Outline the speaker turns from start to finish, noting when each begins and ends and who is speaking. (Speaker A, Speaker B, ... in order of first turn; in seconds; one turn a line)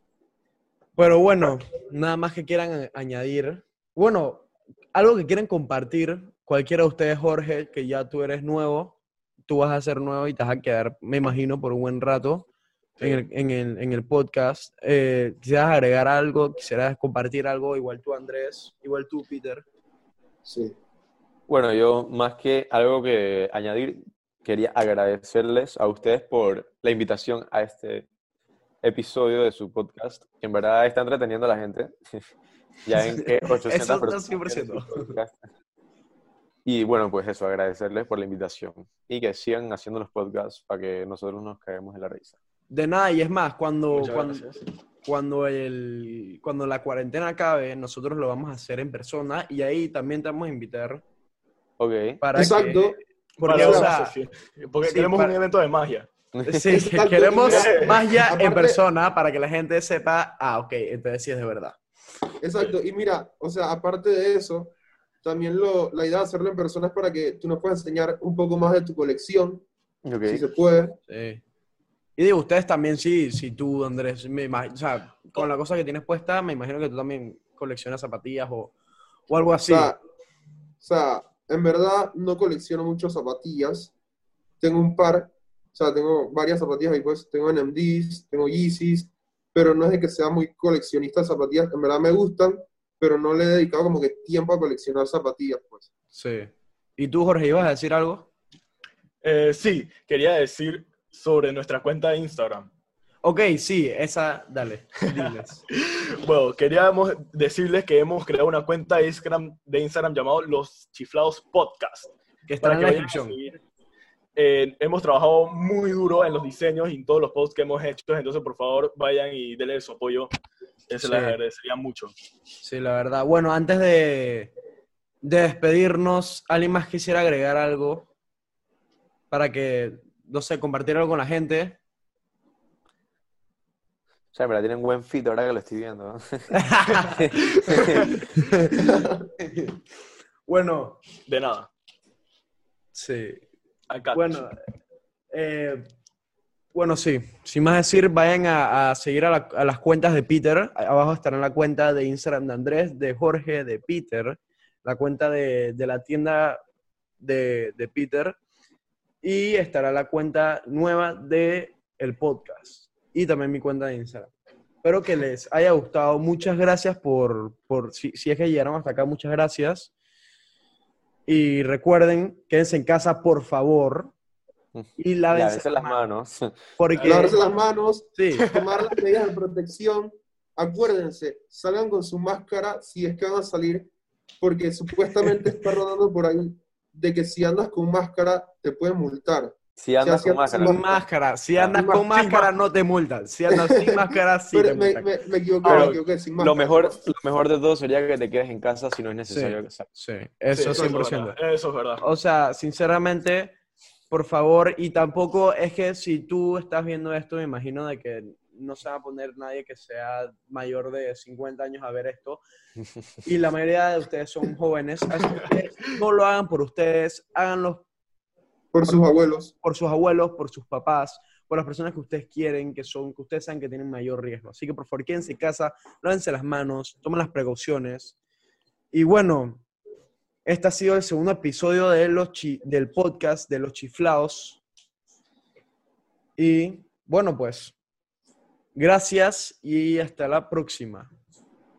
Speaker A: 1.0-12.5
Speaker B: 13.0-13.2
Speaker A: 13.0-19.6
Speaker C: 20.4-20.8
Speaker D: 21.5-28.1
Speaker D: 28.8-32.2
Speaker D: 32.9-35.4
Speaker A: 33.2-35.2
Speaker D: 36.6-42.4
Speaker A: 42.7-44.5
Speaker B: 43.9-44.6
Speaker A: 45.0-51.0
Speaker D: 51.8-52.2
Speaker A: 52.2-54.2
Speaker C: 52.4-53.9
Speaker B: 53.4-56.1
Speaker A: 54.8-55.4
Speaker D: 56.3-56.7
Speaker A: 56.5-61.8
Speaker C: 56.7-58.8
Speaker B: 57.5-58.0
Speaker C: 62.4-64.7
Speaker C: 65.2-69.7
Speaker D: 70.0-70.5
Speaker C: 70.3-71.0
Speaker A: 71.1-71.4
Speaker A: 72.2-78.7
Speaker A: 79.3-79.9
Speaker C: 79.7-80.0
Speaker C: 80.8-83.9
Speaker C: 84.6-95.9
Speaker A: 96.1-98.3
Speaker B: 99.2-102.7
Speaker A: 103.2-105.6
Speaker B: 105.8-113.6
Speaker A: 112.5-113.4
Speaker B: 114.4-120.3
Speaker B: 120.9-122.1
Speaker A: 121.0-121.4
Speaker A: 122.6-124.5
Speaker A: 125.2-128.1
Speaker A: 129.3-131.8
Speaker D: 134.3-138.2
Speaker A: 136.5-138.8
Speaker C: 138.8-139.3
Speaker A: 139.4-139.8
Speaker A: 140.5-141.0
Speaker B: 141.3-141.7
Speaker A: 142.9-143.4
Speaker B: 143.9-144.4
Speaker A: 144.1-144.6
Speaker A: 145.3-145.9
Speaker A: 146.7-156.6
Speaker A: 157.2-158.4
Speaker A: 159.2-164.3
Speaker A: 164.8-169.9
Speaker A: 171.3-174.1
Speaker D: 174.7-176.6
Speaker A: 175.0-176.0
Speaker A: 176.8-177.4
Speaker B: 176.9-177.4
Speaker C: 177.0-183.9
Speaker A: 178.2-178.5
Speaker B: 178.4-179.0
Speaker C: 184.4-191.0
Speaker D: 189.8-190.8
Speaker A: 190.6-195.1
Speaker C: 191.7-192.1
Speaker B: 192.1-192.5
Speaker C: 193.5-197.0
Speaker B: 195.6-196.0
Speaker D: 195.8-199.9
Speaker A: 199.3-201.4
Speaker B: 200.5-202.0
Speaker C: 200.8-201.0
Speaker A: 202.0-203.6
Speaker A: 204.1-212.4
Speaker A: 213.2-217.8
Speaker C: 218.7-219.5
Speaker A: 219.6-228.2
Speaker A: 228.9-229.6
Speaker A: 230.5-234.6
Speaker A: 236.4-237.8
Speaker A: 238.8-241.1